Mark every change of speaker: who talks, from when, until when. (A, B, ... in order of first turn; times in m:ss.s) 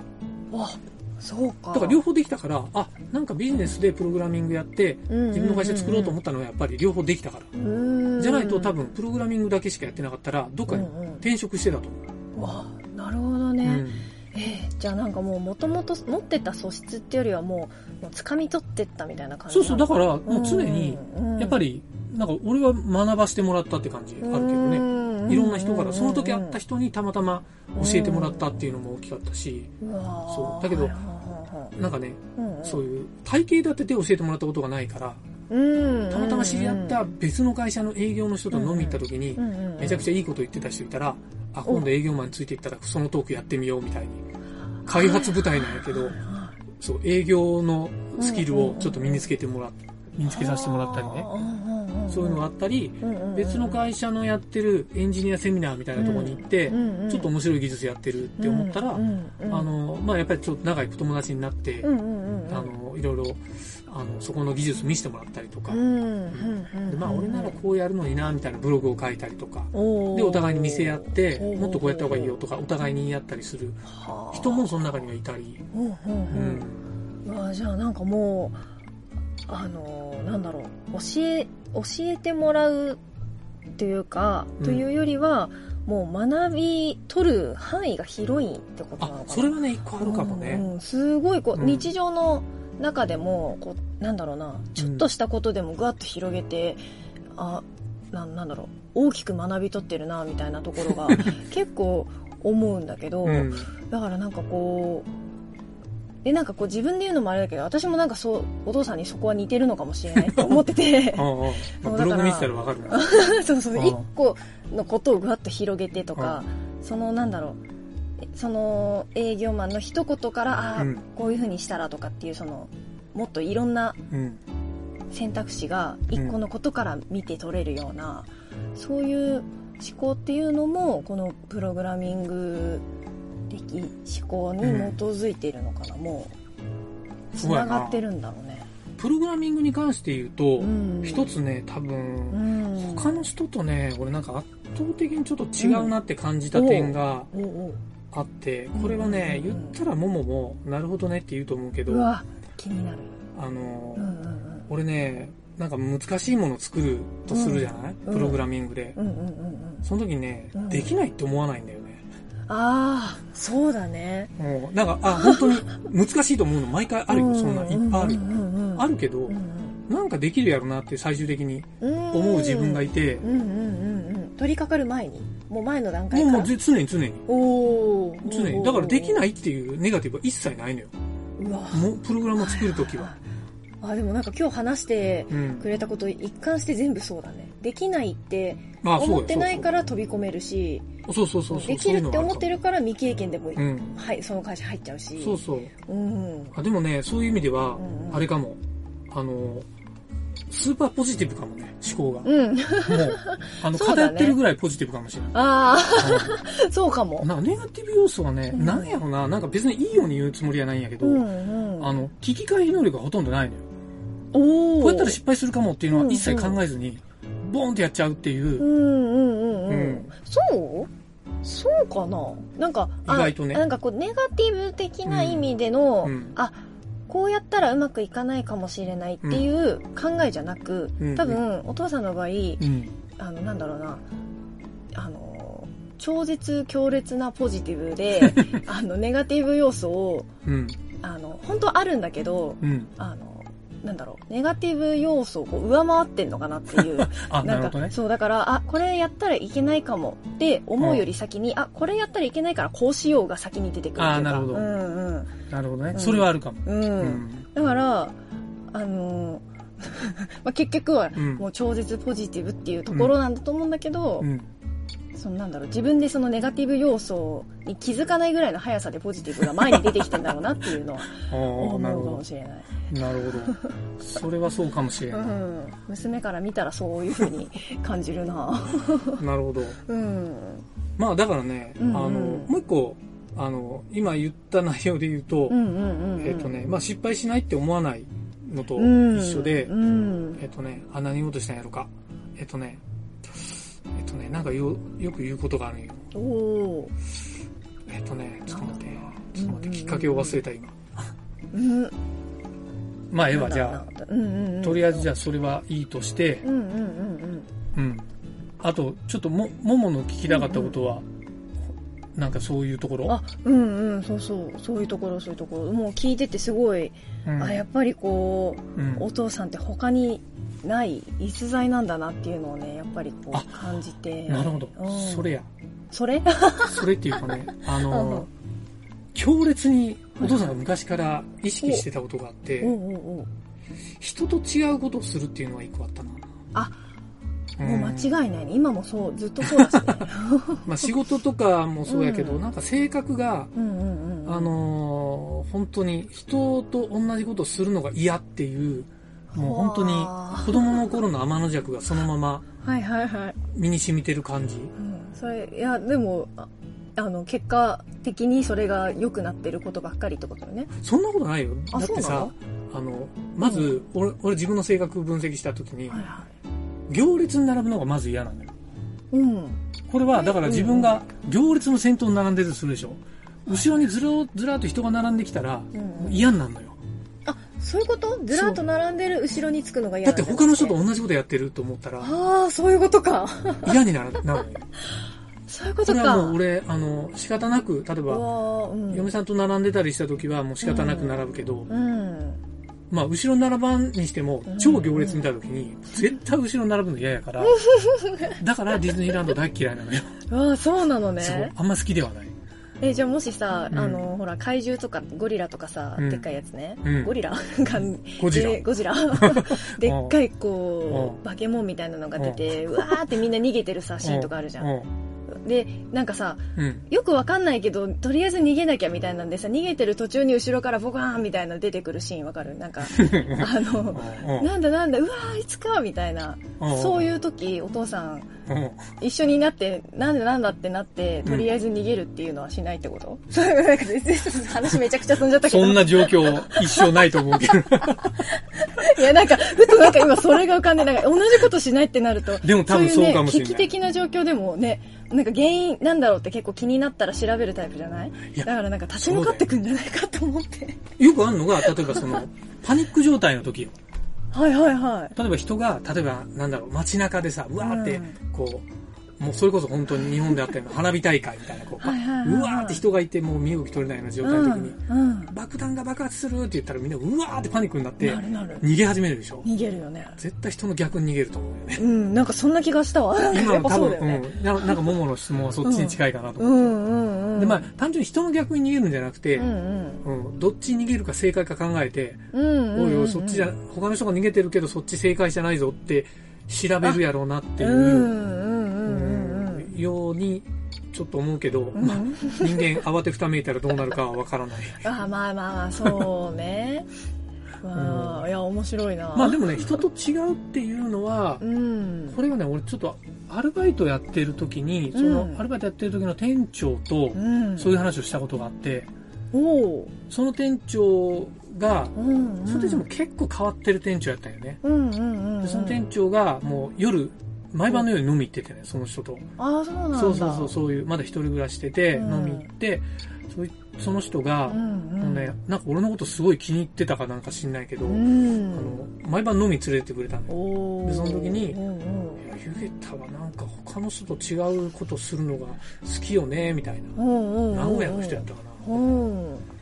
0:00.5-0:02.0 A
0:01.7-0:07.5 B
0:05.1-0:06.2 A
0:07.5-0:08.7 A
0:08.2-0:12.0 B
0:10.7-0:11.2 A
0:12.3-0:21.6 A
0:13.6-0:14.1 B
0:19.5-0:29.7 B
0:24.2-0:26.6 A
0:27.7-0:28.7 A
0:29.8-0:31.7 A
0:30.3-0:31.0 B
0:31.7-0:35.2 B
0:32.4-0:32.8 A
0:35.5-0:37.0 A
0:36.1-0:44.2 B
0:38.5-0:40.1 A
0:44.8-0:46.6 A
0:44.8-0:46.2 B
0:46.8-0:51.3 B
0:48.2-0:49.3 A
0:50.2-0:52.4 A
0:52.1-1:01.9 B
0:53.0-0:53.8 A
0:56.0-0:57.3 A
0:58.4-0:59.7 A
1:01.8-1:02.7 A
1:02.5-1:15.6 B
1:05.7-1:07.6 A
1:09.7-1:12.4 A
1:13.9-1:15.0 A
1:15.7-1:16.6 A
1:16.3-1:16.8 B
1:17.2-1:18.6 A
1:19.5-1:23.0 A
1:23.7-1:36.8 A
1:24.6-1:24.8 B
1:29.0-1:30.7 B
1:31.5-1:31.9 B
1:34.8-1:35.0 B
1:37.4-1:45.1 A
1:43.2-1:43.7 B
1:46.2-1:57.6 A
1:50.1-1:53.1 B
1:53.7-1:54.0 B
1:56.1-1:56.4 B
1:58.3-2:04.0 A
2:00.8-2:01.0 B
2:04.1-2:04.4 B
2:05.1-2:12.8 A
2:13.5-2:16.3 A
2:14.6-2:15.0 B
2:17.3-2:18.7 A
2:17.4-2:18.0 B
2:19.0-2:27.3 B
2:20.6-2:21.3 A
2:22.3-2:23.3 A
2:25.6-2:25.9 A
2:26.5-2:27.8 A
2:28.1-2:32.1 B
2:28.7-2:29.8 A
2:31.9-2:33.2 A
2:33.3-2:34.1 B
2:34.0-2:34.6 A
2:34.7-2:39.0 B
2:37.3-2:38.4 A
2:39.0-2:39.8 A
2:39.8-2:42.0 B
2:40.5-2:40.9 A
2:42.5-2:44.3 A
2:44.4-2:49.4 B
2:45.2-2:45.7 A
2:47.1-2:49.8 A
2:49.9-2:53.2 B
2:51.8-2:56.5 A
2:56.1-2:57.2 B
2:57.3-2:59.2 A
2:58.2-3:00.9 B
3:01.4-3:01.8 A
3:01.7-3:03.1 B
3:02.4-3:03.2 A
3:03.8-3:10.9 A
3:05.3-3:05.6 B
3:08.8-3:09.7 B
3:11.0-3:12.5 B
3:11.5-3:16.6 A
3:13.6-3:14.0 B
3:15.2-3:15.7 B
3:16.5-3:19.7 B
3:17.8-3:18.2 A
3:20.5-3:22.3 B
3:22.2-3:24.4 A
3:22.8-3:25.4 B
3:25.3-3:27.3 A
3:26.0-3:26.4 B
3:27.2-3:31.3 B
3:28.5-3:29.0 A
3:31.0-3:32.0 A
3:31.8-3:33.6 B
3:34.3-3:35.2 A
3:34.8-3:38.7 B
3:35.9-3:36.6 A
3:38.6-3:40.9 A
3:39.7-3:40.1 B
3:41.4-3:54.0 A
3:43.0-3:43.6 B
3:45.0-3:45.5 B
3:46.0-3:46.4 B
3:51.0-3:51.4 B
3:52.6-3:52.9 B
3:54.9-4:00.3 A
3:58.2-3:58.6 B
4:00.4-4:00.8 B
4:01.0-4:15.4 A
4:02.6-4:02.9 B
4:06.7-4:07.9 B
4:10.8-4:11.1 B
4:14.0-4:14.7 B
4:15.5-4:17.4 B
4:15.9-4:18.2 A
4:18.7-4:24.3 A
4:21.2-4:21.4 B
4:24.2-4:24.5 B
4:25.1-4:32.7 A
4:31.2-4:32.2 B
4:32.9-4:35.4 B
4:33.3-4:33.7 A
4:35.1-4:39.2 A
4:39.2-4:39.8 B
4:39.8-4:40.6 A
4:41.0-4:45.6 B
4:41.8-4:42.5 A
4:45.5-4:46.6 A
4:46.2-4:49.7 B
4:48.8-4:50.4 A
4:50.4-4:56.1 B
4:56.1-4:56.9 A
4:57.9-5:01.1 B
4:58.5-5:00.4 A
5:01.5-5:01.9 A
5:03.1-5:03.8 B
5:03.3-5:05.1 A
5:04.6-5:06.4 B
5:06.4-5:07.5 A
5:07.7-5:08.1 B
5:08.6-5:11.0 B
5:10.3-5:10.8 A
5:12.1-5:13.2 B
5:13.0-5:25.4 A
5:17.2-5:17.6 B
5:18.8-5:19.1 B
5:23.3-5:23.6 B
5:24.3-5:25.5 B
5:25.9-5:28.3 A
5:26.7-5:28.3 B
5:29.1-5:32.8 B
5:30.2-5:30.5 A
5:32.6-5:33.3 A
5:34.0-5:36.2 B
5:37.6-5:38.2 B
5:37.6-5:40.9 A
5:39.4-5:40.0 B
5:40.6-5:43.5 B
5:41.8-5:42.4 A
5:43.5-5:44.5 A
5:44.2-5:52.4 B
5:49.3-5:50.9 A
5:52.6-5:53.4 A
5:53.5-5:54.7 B
5:54.8-6:00.7 A
6:00.8-6:06.0 B
6:01.7-6:02.3 A
6:03.4-6:03.7 A
6:05.9-6:06.3 A
6:06.9-6:08.5 B
6:09.1-6:11.0 A
6:09.9-6:16.8 B
6:13.5-6:13.8 A
6:15.7-6:16.3 A
6:17.2-6:20.8 A
6:18.3-6:18.6 B
6:20.0-6:22.1 B
6:22.0-6:23.8 A
6:23.6-6:24.7 B
6:25.5-6:26.4 A
6:25.8-6:28.2 B
6:28.1-6:29.1 A
6:28.9-6:31.7 B
6:30.6-6:32.4 A
6:32.9-6:37.6 B
6:34.5-6:35.2 A
6:37.4-6:38.4 A
6:38.4-6:40.1 B
6:40.3-6:41.5 A
6:41.2-6:42.3 B
6:42.8-6:54.7 A
6:43.7-6:44.1 B
6:46.0-6:46.2 B
6:46.8-6:47.1 B
6:47.8-6:50.2 B
6:50.9-6:51.2 B
6:52.2-6:53.0 B
6:54.0-6:54.9 B
6:55.3-7:08.3 A
6:56.6-6:56.8 B
7:02.9-7:04.5 B
7:06.6-7:07.1 B
7:08.5-7:08.9 B
7:09.0-7:30.8 A
7:11.2-7:11.5 B
7:15.4-7:18.2 B
7:22.4-7:23.7 B
7:28.3-7:29.5 B
7:31.0-7:33.8 B
7:31.6-7:32.2 A
7:34.3-7:35.2 A
7:35.1-7:38.7 B
7:37.6-7:38.2 A
7:39.2-7:44.8 B
7:41.8-7:42.8 A
7:44.2-7:45.3 A
7:45.3-7:49.5 B
7:48.0-7:48.6 A
7:49.4-7:50.2 A
7:50.2-7:51.8 B
7:51.8-7:54.9 A
7:53.3-7:56.8 B
7:55.6-7:57.7 A
7:57.4-7:59.5 B
7:59.4-8:00.0 A
8:00.0-8:08.1 B
8:02.3-8:03.5 A
8:07.6-8:09.7 A
8:08.8-8:14.8 B
8:11.7-8:12.8 A
8:14.8-8:16.9 A
8:15.8-8:16.1 B
8:17.6-8:19.7 A
8:17.7-8:18.3 B
8:19.1-8:21.4 B
8:21.4-8:22.2 A
8:22.1-8:28.9 B
8:24.9-8:25.4 A
8:27.1-8:27.8 A
8:29.3-8:29.9 A
8:30.1-8:31.9 B
8:31.9-8:32.9 A
8:32.4-8:34.6 B
8:34.6-8:35.8 A
8:35.4-8:39.3 B
8:39.4-8:40.6 A
8:39.9-8:51.6 B
8:41.9-8:42.5 A
8:44.5-8:45.4 A
8:47.8-8:48.8 A
8:50.3-8:52.2 A
8:52.2-8:57.0 B
8:57.0-8:59.4 A
8:57.5-8:59.0 B